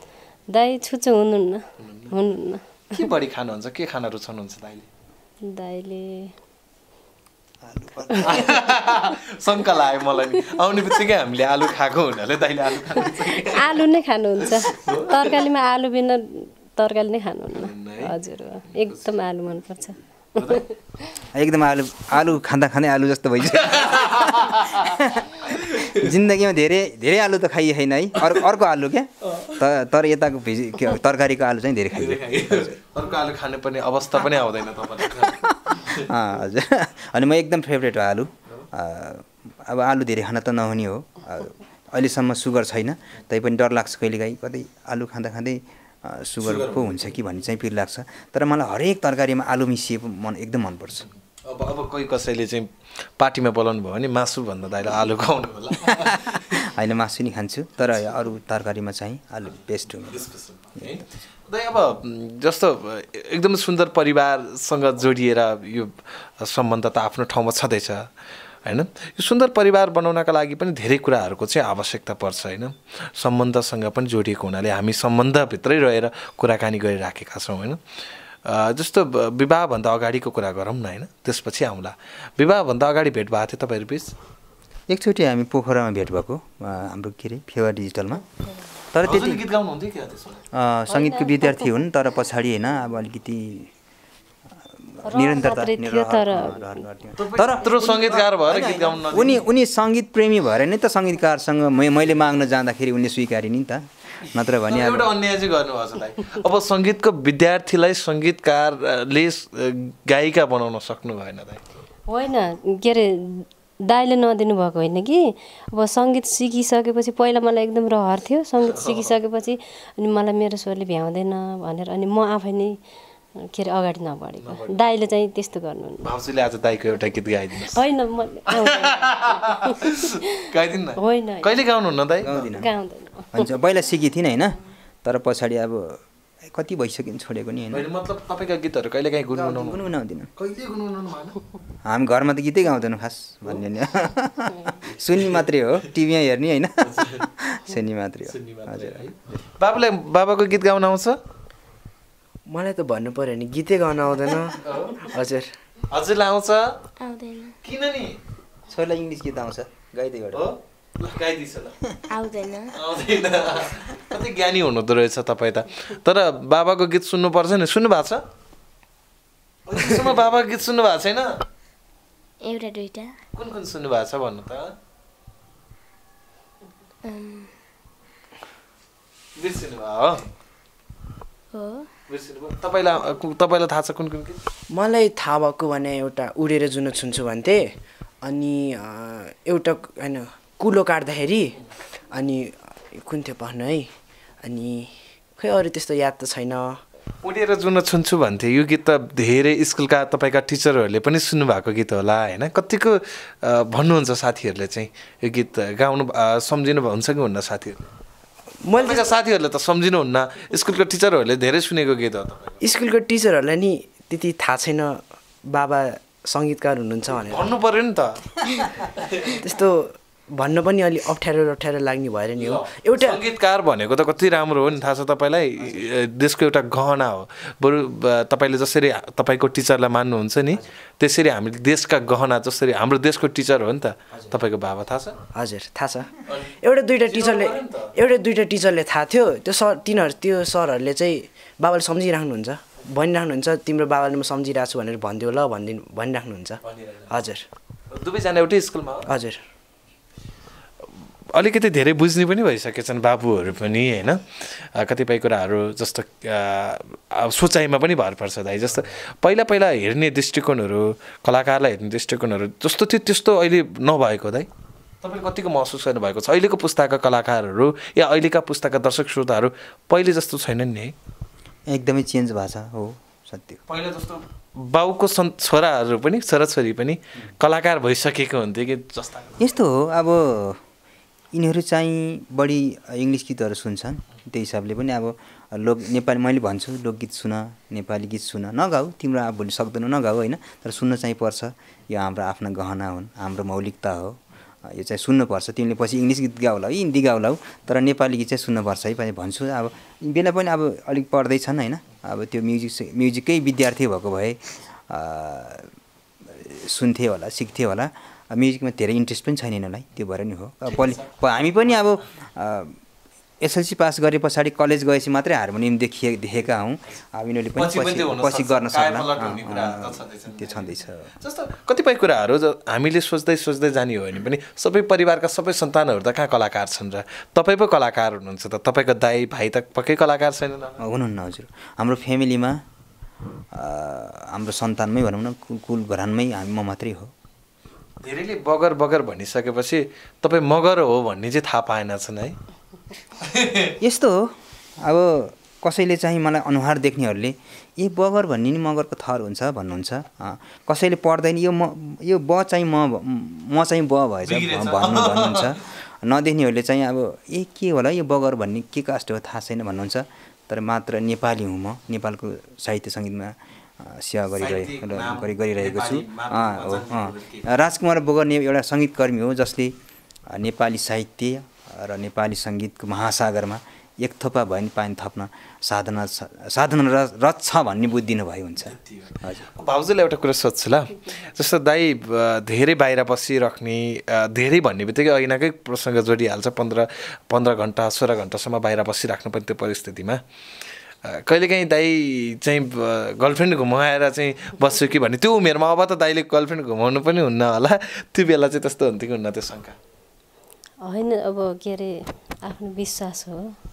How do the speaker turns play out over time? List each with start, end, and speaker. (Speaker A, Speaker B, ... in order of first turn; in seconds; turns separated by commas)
Speaker A: 0.5-3.1, Speaker B: 1.8-2.1, Speaker B: 2.9-4.9, Speaker A: 5.4-6.3, Speaker C: 7.6-8.7, Speaker A: 8.1-9.2, Speaker B: 8.2-13.9, Speaker A: 10.0-11.0, Speaker A: 12.8-21.1, Speaker B: 14.4-15.4, Speaker B: 17.5-18.2, Speaker B: 18.7-19.1, Speaker B: 20.4-20.6, Speaker C: 21.3-32.8, Speaker B: 23.5-26.1, Speaker B: 29.3-29.6, Speaker B: 31.9-36.1, Speaker C: 35.2-51.1, Speaker B: 46.4-47.2, Speaker B: 51.5-56.6, Speaker C: 55.8-60.3, Speaker B: 60.1-68.1, Speaker B: 68.6-77.8, Speaker B: 78.4-84.2, Speaker C: 84.9-88.2, Speaker C: 88.9-89.4, Speaker B: 89.0-90.4, Speaker C: 90.5-93.7, Speaker A: 90.9-91.8, Speaker C: 94.9-105.1, Speaker A: 95.0-96.7, Speaker B: 97.2-99.4, Speaker B: 104.2-111.6, Speaker A: 112.1-122.8, Speaker B: 118.6-119.2, Speaker A: 123.4-126.0, Speaker B: 124.4-124.8, Speaker B: 126.0-127.8, Speaker A: 127.7-130.2, Speaker B: 128.5-132.4, Speaker A: 131.0-131.6, Speaker C: 132.2-132.7, Speaker A: 132.3-133.5, Speaker C: 133.3-137.8, Speaker B: 137.7-139.8, Speaker C: 139.3-140.3, Speaker B: 140.3-141.4, Speaker C: 141.8-149.0, Speaker B: 144.9-145.4, Speaker B: 146.8-147.3, Speaker B: 148.3-151.2, Speaker D: 152.5-155.5, Speaker B: 154.6-155.1, Speaker B: 155.9-156.8, Speaker E: 157.0-157.6, Speaker B: 157.6-158.2, Speaker C: 158.7-160.4, Speaker B: 160.3-161.8, Speaker E: 162.1-162.7, Speaker B: 162.7-168.2, Speaker B: 169.7-171.4, Speaker E: 172.4-173.2, Speaker B: 173.3-174.7, Speaker E: 177.0-177.5, Speaker B: 179.3-180.3, Speaker E: 181.5-181.9, Speaker B: 182.1-184.4, Speaker D: 184.7-191.6, Speaker D: 192.1-196.8, Speaker B: 197.2-207.8, Speaker D: 208.6-209.1, Speaker B: 208.8-212.6, Speaker D: 212.6-217.5, Speaker B: 217.2-219.4, Speaker D: 219.3-223.2, Speaker B: 222.3-235.2, Speaker D: 235.3-247.4, Speaker B: 236.3-237.9, Speaker B: 246.6-247.1, Speaker B: 247.9-249.1, Speaker D: 249.1-249.4, Speaker B: 251.3-264.5, Speaker B: 265.0-270.9, Speaker C: 271.7-273.6, Speaker B: 273.7-279.5, Speaker C: 279.4-280.6, Speaker C: 281.3-305.7, Speaker C: 306.2-312.8, Speaker B: 310.6-311.1, Speaker C: 313.4-321.1, Speaker B: 317.6-330.8, Speaker C: 330.8-332.6, Speaker C: 333.5-337.1, Speaker B: 338.0-342.4, Speaker B: 343.2-343.8, Speaker C: 343.8-369.7, Speaker B: 354.2-355.6, Speaker B: 364.4-367.5, Speaker C: 370.3-379.5, Speaker B: 378.6-390.2, Speaker B: 391.0-399.8, Speaker A: 400.8-403.5